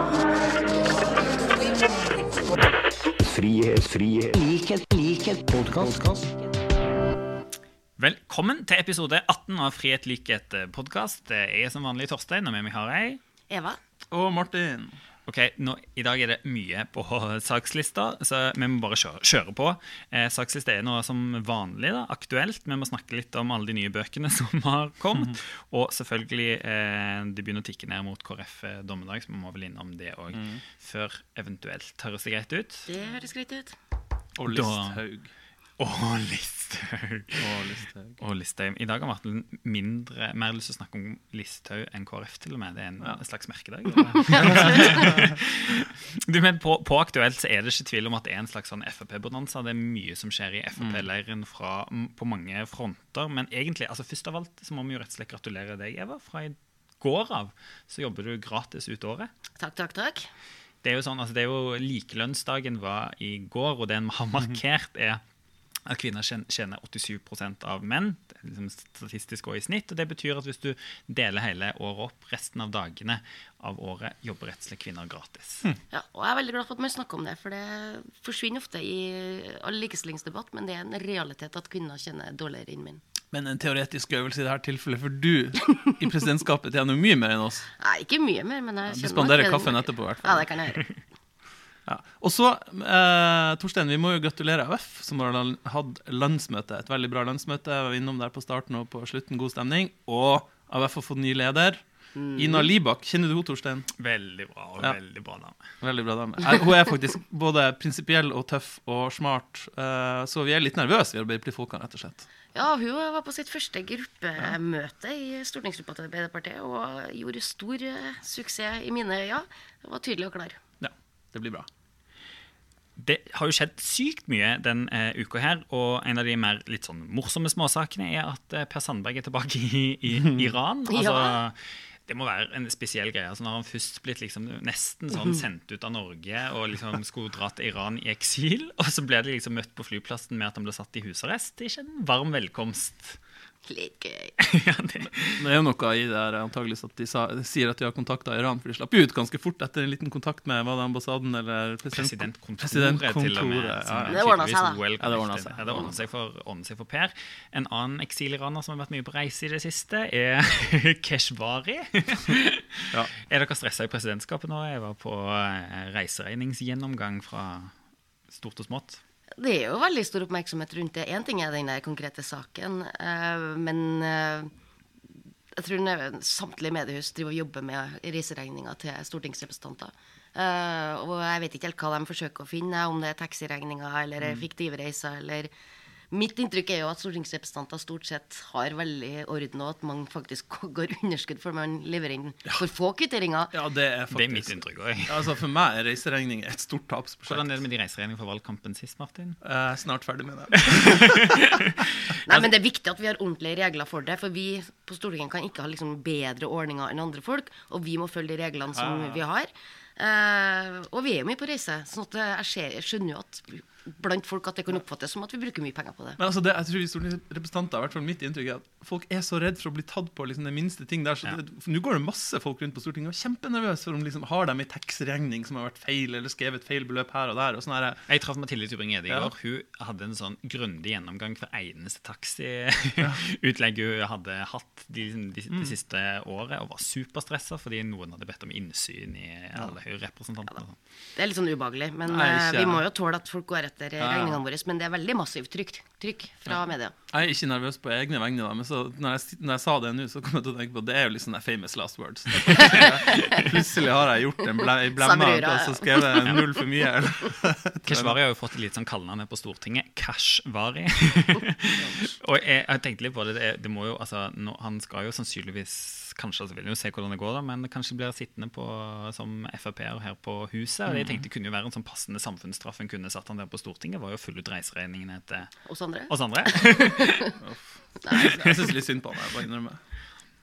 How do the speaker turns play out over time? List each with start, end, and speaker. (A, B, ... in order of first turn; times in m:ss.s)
0:03.2-0:06.4 A
0:08.0-0:13.2 B
0:13.5-0:13.8 C
0:14.1-0:15.0 D
0:15.2-0:32.9 B
0:30.3-0:30.6 D
0:32.9-0:33.8 C
0:34.4-0:35.3 D
0:34.5-0:35.0 B
0:35.8-0:37.6 B
0:37.4-0:38.2 D
0:38.2-0:59.3 B
0:44.3-0:45.3 D
0:50.8-0:51.0 D
0:59.6-1:00.3 C
1:00.8-1:05.2 B
1:05.8-1:15.6 B
1:15.9-1:23.0 C
1:23.3-1:27.7 D
1:27.8-1:30.8 C
1:28.9-1:30.5 D
1:31.8-1:43.9 D
1:42.2-1:42.6 C
1:43.9-1:45.6 B
1:45.8-1:52.3 D
1:52.5-2:00.6 C
2:00.8-2:01.7 D
2:03.0-2:23.2 B
2:10.9-2:11.4 C
2:23.6-2:24.4 C
2:24.4-2:25.4 B
2:25.4-2:34.2 D
2:31.9-2:47.7 B
2:34.1-2:34.8 C
2:35.0-2:35.9 D
2:48.3-2:49.0 B
2:49.4-2:54.5 C
2:55.5-3:05.5 C
3:06.1-3:13.5 C
3:13.5-3:17.5 D
3:14.1-3:15.3 B
3:17.2-3:19.4 B
3:19.4-3:21.5 D
3:20.7-3:22.4 B
3:22.2-3:36.2 C
3:28.7-3:29.2 D
3:36.2-3:48.0 D
3:48.1-4:00.8 B
3:49.1-3:49.3 D
4:01.1-4:06.9 C
4:02.1-4:02.8 D
4:04.0-4:04.4 D
4:07.1-4:18.2 D
4:12.5-4:13.4 C
4:15.0-4:16.6 C
4:17.8-4:35.6 B
4:21.8-4:22.1 D
4:30.9-4:31.2 D
4:35.6-4:37.3 C
4:36.1-4:37.4 B
4:37.4-4:39.8 D
4:38.1-4:38.7 B